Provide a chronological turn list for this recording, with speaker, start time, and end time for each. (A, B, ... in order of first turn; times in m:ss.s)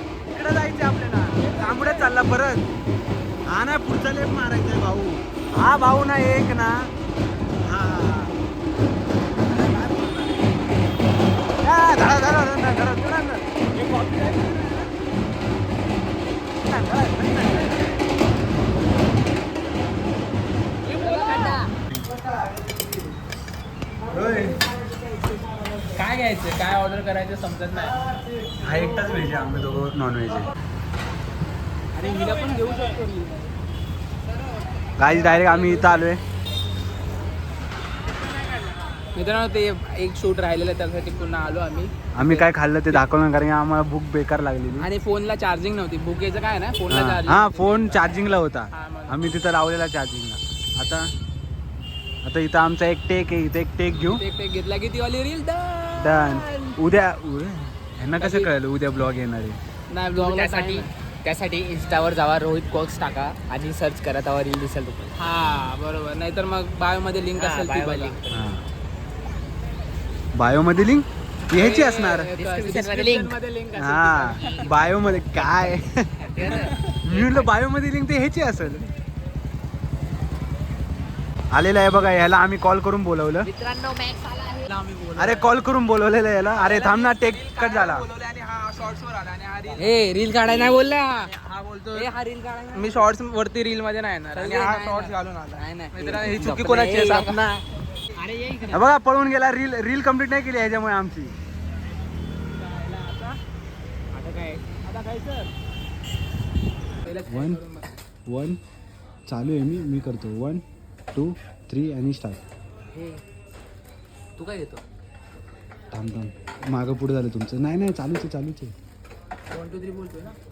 0:00.3-0:02.7 A
0:01.5-0:01.8 B
0:01.6-0:02.0 C
0:03.5-0:06.9 A
0:07.6-0:08.4 A
0:09.4-0:10.5 A
0:11.6-0:14.9 A
0:16.6-0:17.9 A
0:20.8-0:21.7 C
0:20.9-0:21.6 B
0:21.9-0:22.2 A
0:24.1-0:24.6 A
0:25.9-0:28.0 B
0:28.6-0:30.5 A
0:31.9-0:33.5 B
0:35.0-0:36.2 A
0:35.1-0:36.1 B
0:39.1-0:43.0 B
0:42.1-0:44.9 A
0:44.8-0:49.3 B
0:46.9-0:51.1 A
0:52.2-0:54.2 A
0:54.1-0:56.8 B
0:56.0-0:59.6 A
0:58.2-0:58.5 B
0:59.9-1:00.9 B
1:00.1-1:05.1 C
1:05.2-1:08.2 B
1:07.3-1:08.4 C
1:08.3-1:08.6 A
1:10.3-1:12.3 A
1:11.5-1:14.7 B
1:12.3-1:13.3 C
1:13.7-1:18.8 A
1:14.3-1:17.5 C
1:16.5-1:17.0 B
1:21.5-1:23.5 A
1:23.4-1:24.7 C
1:24.7-1:25.5 B
1:25.2-1:28.1 A
1:26.5-1:32.1 B
1:29.8-1:31.3 C
1:31.9-1:33.1 C
1:32.7-1:37.5 B
1:34.3-1:37.6 C
1:38.1-1:38.8 C
1:38.7-1:41.3 A
1:42.5-1:43.4 B
1:44.1-1:44.6 C
1:44.8-1:45.5 B
1:47.0-1:48.0 B
1:47.3-1:47.6 A
1:48.3-1:48.6 A
1:49.3-1:52.4 A
1:52.9-1:53.2 C
1:54.4-1:54.8 C
1:55.9-1:58.7 A
1:59.5-2:00.4 B